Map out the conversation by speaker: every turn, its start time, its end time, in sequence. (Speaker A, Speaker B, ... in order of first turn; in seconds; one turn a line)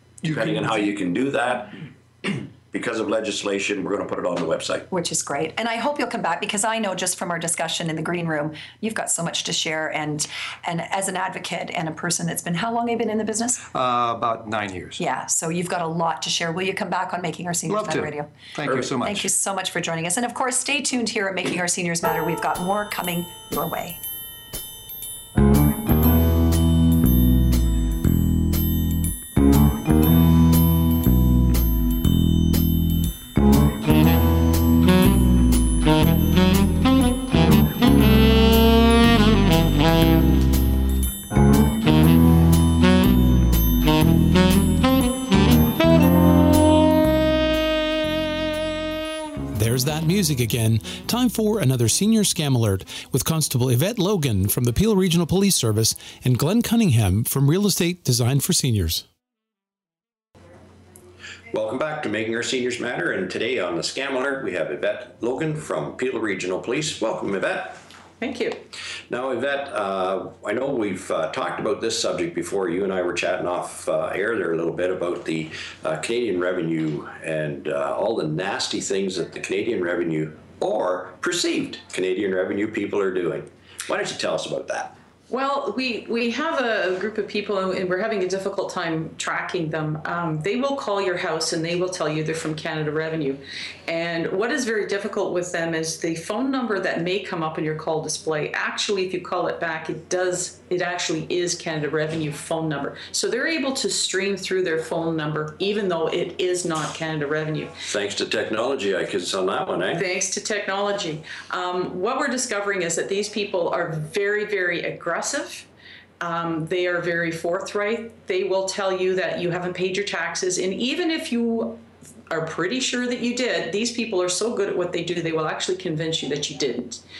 Speaker A: 0.2-4.9
Speaker B: 0.2-0.9
Speaker C: 4.9-13.6
Speaker B: 13.7-15.0
Speaker C: 15.0-24.0
Speaker B: 17.7-19.3
Speaker D: 49.5-59.0
Speaker A: 61.5-67.8
Speaker E: 68.2-68.6
Speaker A: 69.1-85.0
Speaker E: 85.3-107.7
Speaker A: 107.9-110.0
Speaker E: 109.9-115.7
Speaker E: 116.2-127.0